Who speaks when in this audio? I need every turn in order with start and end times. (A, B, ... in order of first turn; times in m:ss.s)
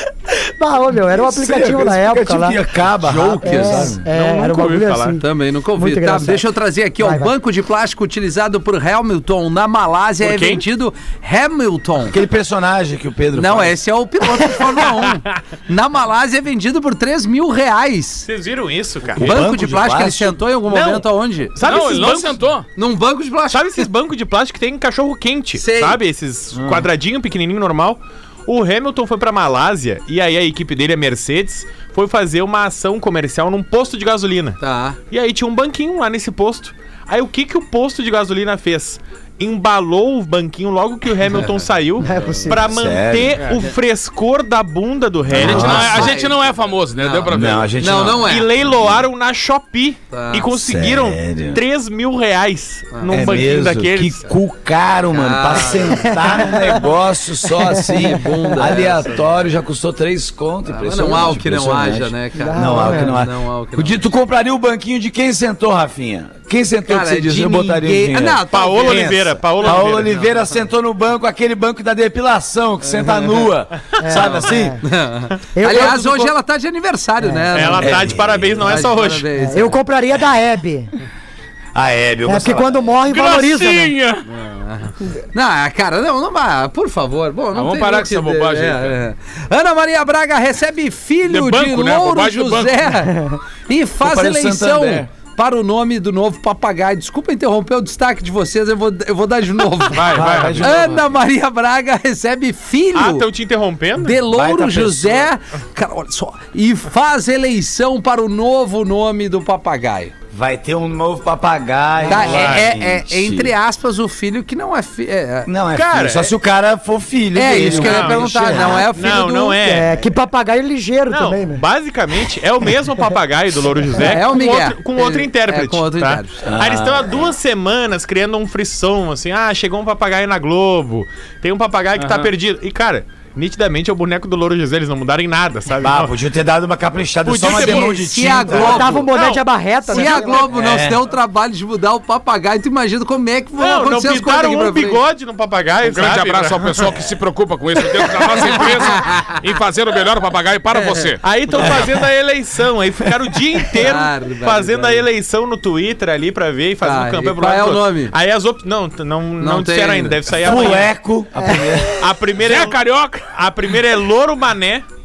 0:00.3-0:02.6 A
0:01.1-0:04.0 B
0:03.0-0:04.0 C
0:03.4-0:05.2 A
0:04.0-0:05.2 D
0:05.2-0:12.2 C
0:05.7-0:07.3 A
0:10.2-0:10.6 D
0:12.0-0:13.8 B
0:13.3-0:18.3 C
0:18.2-0:19.3 D
0:19.1-0:20.4 B
0:19.2-0:21.6 C
0:20.7-0:22.4 D
0:21.6-0:22.6 E
0:22.8-0:23.9 C
0:23.5-0:46.1 D
0:25.5-0:26.0 C
0:26.5-0:26.9 B
0:34.6-0:35.0 C
0:41.3-0:42.5 C
0:42.0-0:42.7 A
0:42.5-0:43.4 B
0:45.3-0:46.1 B
0:45.3-0:47.7 E
0:45.4-0:46.4 C
0:47.0-0:48.5 C
0:47.3-0:49.0 B
0:48.2-0:54.3 D
0:50.1-0:50.5 C
0:50.6-0:51.6 B
0:52.9-0:53.4 C
0:53.1-1:08.9 B
0:55.1-0:56.2 C
0:56.1-0:56.8 A
0:57.6-0:58.1 A
0:57.9-0:59.2 C
1:00.7-1:04.1 C
1:02.4-1:03.1 A
1:06.8-1:10.5 C
1:08.5-1:10.1 D
1:09.6-1:14.8 B
1:12.8-1:13.5 C
1:14.0-1:14.8 A
1:14.8-1:19.8 C
1:15.5-1:16.3 A
1:17.2-1:17.7 A
1:17.5-1:19.3 D
1:17.8-1:18.8 B
1:19.4-1:20.9 A
1:21.7-1:22.9 B
1:22.2-1:23.9 A
1:23.1-1:24.3 E
1:24.2-1:43.3 C
1:27.5-1:29.0 E
1:31.3-1:32.9 E
1:34.0-1:35.1 B
1:39.9-1:40.8 E
1:40.1-1:41.1 B
1:42.9-1:44.2 D
1:44.0-1:50.1 C
1:44.3-1:45.3 B
1:50.3-1:53.5 B
1:52.0-1:52.5 A
1:52.1-1:55.5 C
1:52.2-1:52.7 D
1:55.4-1:58.9 B
1:55.7-1:56.3 D
1:57.3-1:59.6 C
1:57.6-1:59.9 D
1:58.5-1:58.9 A
1:59.6-2:01.6 A
2:01.1-2:16.1 D
2:03.9-2:06.4 C
2:06.4-2:07.3 B
2:12.0-2:12.3 E
2:15.8-2:19.1 B
2:17.2-2:19.5 D
2:17.4-2:19.1 C
2:18.5-2:20.6 A
2:19.9-2:25.0 C
2:20.0-2:20.3 D
2:20.5-2:21.0 B
2:23.6-2:26.9 D
2:25.8-2:31.2 E
2:28.9-2:29.3 C
2:30.7-2:31.1 C
2:31.2-2:40.9 D
2:33.8-2:35.1 C
2:36.8-2:38.1 C
2:39.4-2:40.8 C
2:40.4-2:42.0 B
2:41.4-2:41.8 A
2:42.0-2:44.8 D
2:42.4-2:43.3 E